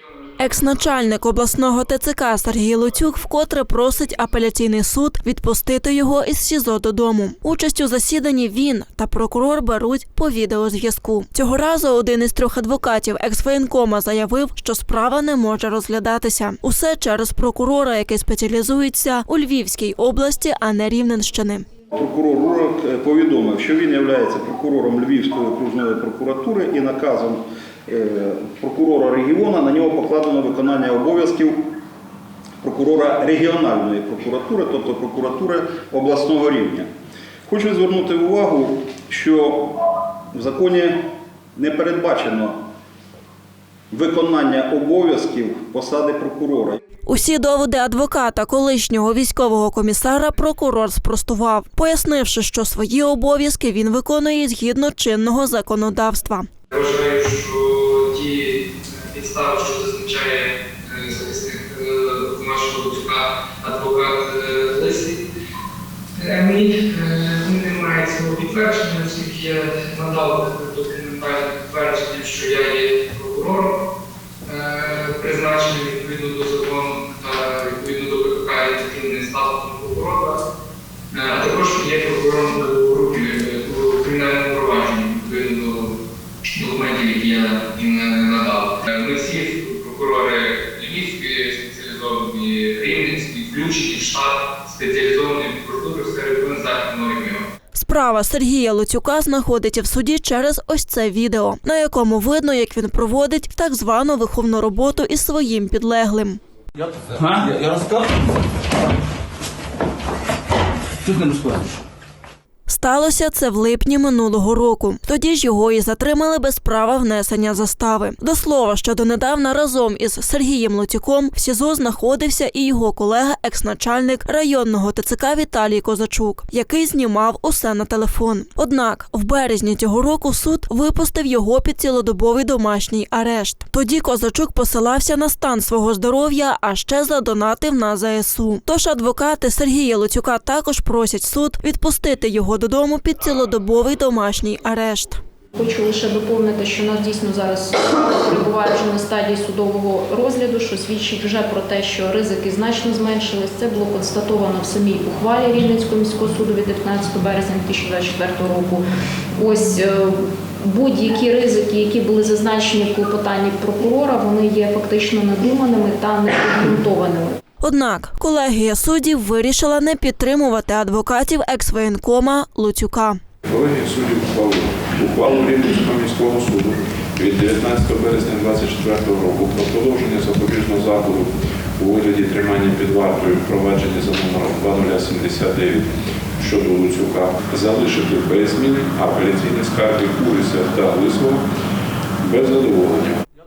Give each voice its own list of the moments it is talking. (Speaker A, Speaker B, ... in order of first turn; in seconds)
Speaker A: 0.4-21.7, 47.1-56.5, 97.7-106.4, 112.7-145.2, 167.6-173.2
Speaker B: 21.9-31.6, 32.6-36.9, 37.5-39.8, 40.3-41.0, 41.6-42.6, 43.9-46.8
Speaker C: 56.7-65.2, 66.2-73.8, 74.5-80.4, 81.1-86.0, 86.6-97.5
Speaker D: 106.8-108.1, 111.0-111.7
Speaker E: 145.6-158.8, 159.4-167.4
Speaker F: 173.5-185.8, 186.4-191.4, 192.2-193.2